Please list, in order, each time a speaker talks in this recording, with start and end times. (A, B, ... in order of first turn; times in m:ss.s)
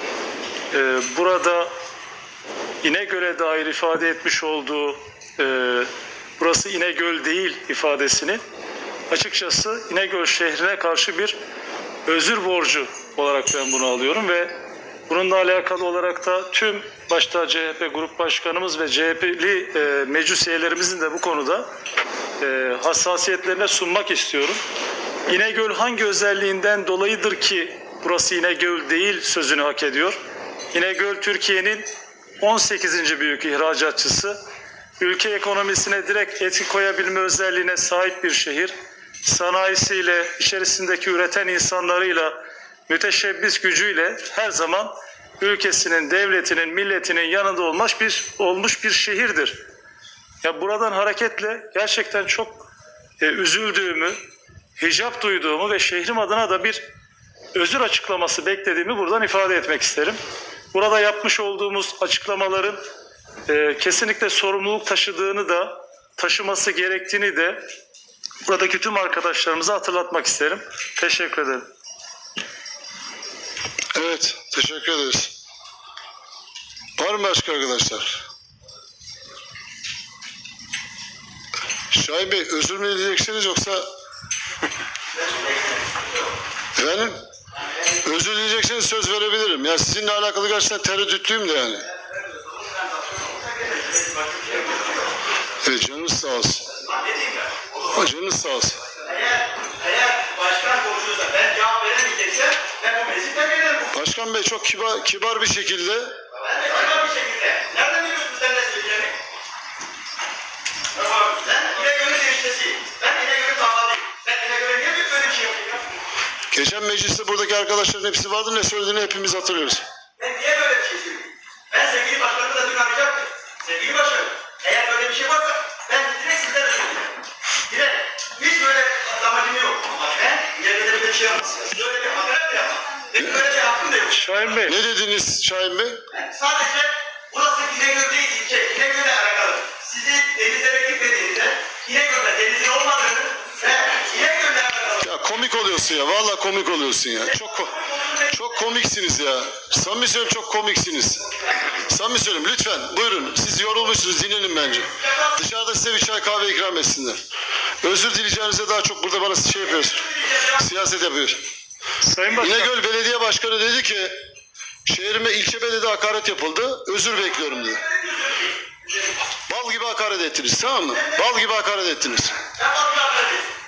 0:00.7-0:01.7 A
0:02.8-0:08.4 A
0:09.1-0:11.4 A
0:12.1-0:14.5 A
0:15.1-0:21.7 A
0:22.4-0:24.6 A
0:25.3-0:30.2 A
0:30.7-0:31.9 A
0:32.4-0:34.4 A
0:35.0-0:42.4 A
0:42.9-0:49.6 A
0:50.4-0:52.7 A
0:53.2-0:54.2 A
0:54.8-0:56.8 A
0:57.5-1:00.2 A
1:00.7-1:02.8 A
1:03.5-1:07.6 A
1:08.4-1:11.7 A
1:14.0-1:15.3 B
1:17.0-1:18.2 B
1:21.9-1:23.9 B
1:25.1-1:26.2 C
1:26.8-1:27.2 B
1:28.0-1:31.9 B
1:32.4-1:35.1 C
1:35.6-1:36.7 B
1:36.9-1:37.8 C
1:37.9-1:38.8 B
1:39.0-1:43.9 C
1:43.9-1:46.2 B
1:46.4-1:49.2 C
1:51.0-1:55.9 C
1:56.5-1:59.8 B
2:00.2-2:07.2 C
2:07.7-2:14.4 C
2:14.1-2:14.8 A
2:14.6-2:16.0 B
2:16.2-2:25.1 C
2:25.0-2:27.8 B
2:27.3-2:28.4 C
2:28.3-2:37.2 B
2:37.8-2:41.4 B
2:39.8-2:40.6 C
2:42.0-2:42.7 A
2:42.3-2:44.1 B
2:44.8-2:47.8 B
2:47.4-2:48.6 C
2:49.5-2:52.4 B
2:52.5-2:53.5 C